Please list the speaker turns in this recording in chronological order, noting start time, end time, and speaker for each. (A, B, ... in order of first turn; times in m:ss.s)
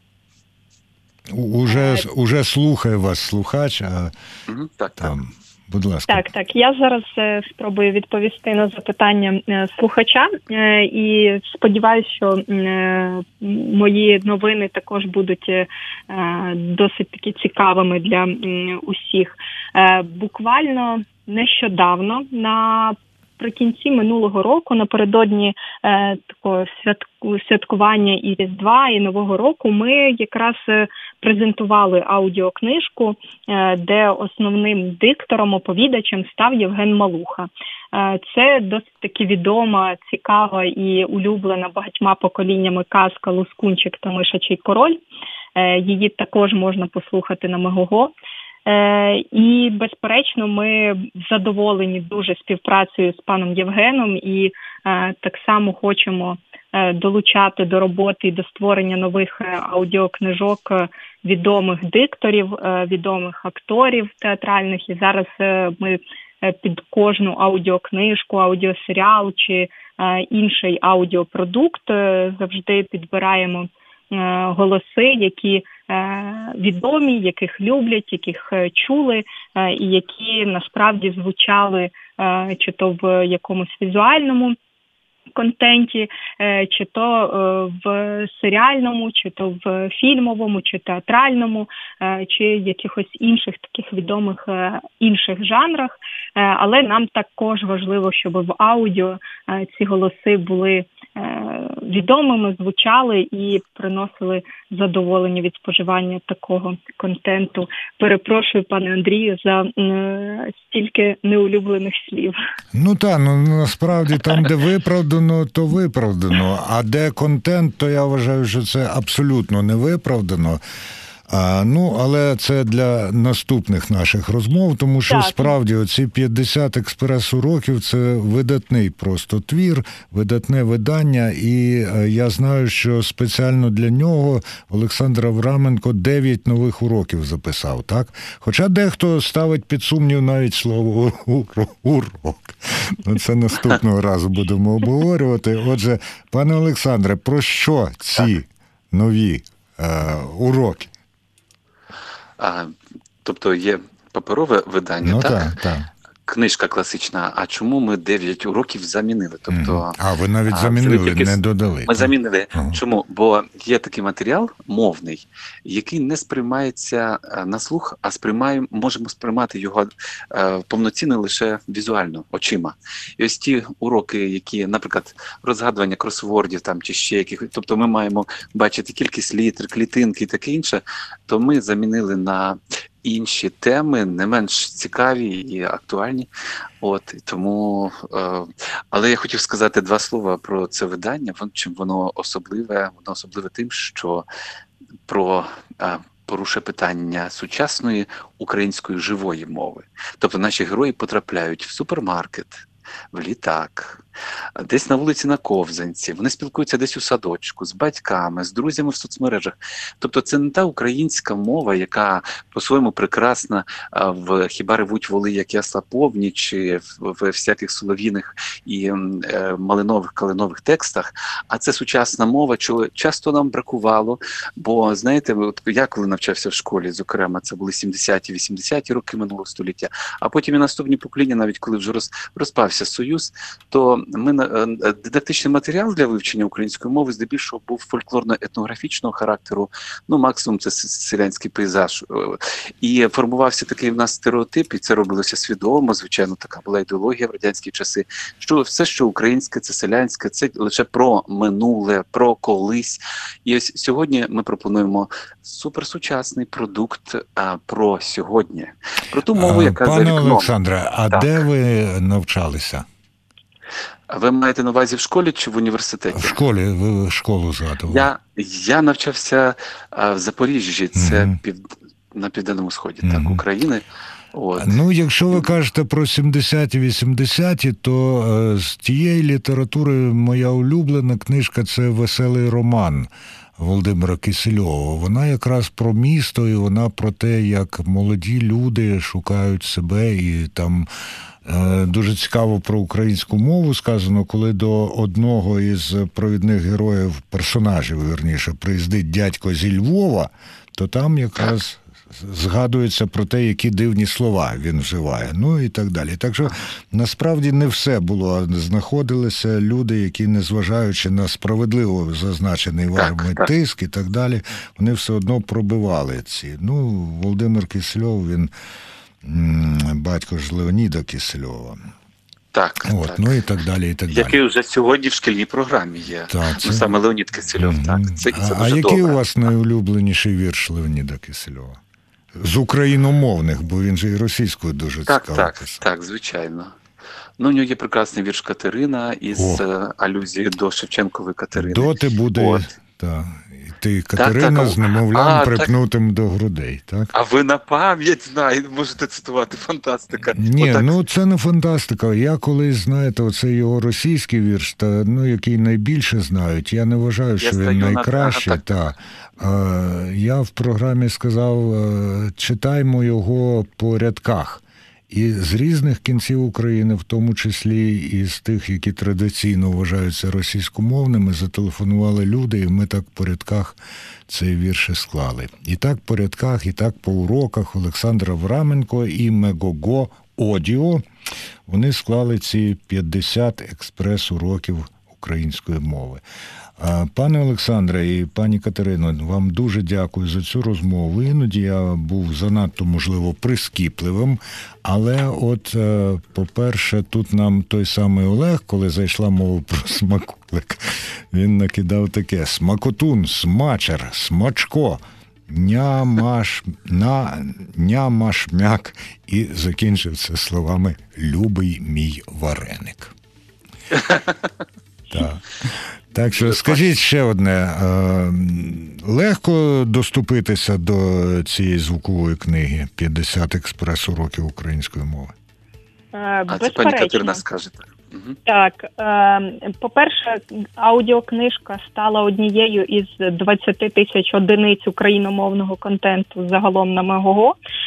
0:01.3-0:04.1 A
0:01.7-0:02.0 B
0:04.5-0:05.2 C
0:05.0-0:06.3 A
0:06.1-0:45.0 B
0:45.6-0:48.1 B
0:48.7-1:24.6 B
1:25.4-1:52.4 B
1:52.7-2:00.6 A
2:01.3-2:30.9 A
2:05.1-2:05.5 B
2:32.4-2:32.7 C
2:33.2-2:35.5 C
2:35.0-2:35.9 A
2:36.3-2:39.9 C
2:39.5-2:42.8 A
2:40.5-3:06.3 C
3:06.8-3:14.3 C
3:15.1-3:24.0 C
3:24.6-4:20.5 C
4:19.4-4:22.9 A
4:21.1-4:21.4 C
4:24.1-4:26.4 C
4:26.1-4:28.1 A
4:27.9-4:34.8 C
4:31.0-4:31.4 A
4:33.0-4:33.4 A
4:34.6-4:50.9 A
4:51.4-5:18.5 A
5:13.0-5:13.5 C
5:19.2-5:21.8 A
5:22.5-5:23.4 C
5:22.9-5:24.4 A
5:24.1-5:29.2 C
5:26.3-5:26.9 A
5:27.6-5:31.8 A
5:32.4-5:35.8 A
5:35.1-5:36.8 C
5:37.4-5:42.7 C
5:39.4-5:39.6 A
5:41.6-5:47.1 A
5:44.2-5:45.7 C
5:47.1-5:51.0 C
5:50.3-6:13.8 A
5:57.4-5:58.8 C
6:14.3-6:21.0 A
6:21.7-6:26.2 A
6:26.8-6:53.1 A
6:55.1-7:05.4 A
6:56.4-6:56.9 C
7:06.1-7:07.4 B
7:06.5-7:08.4 C
7:08.5-7:17.6 B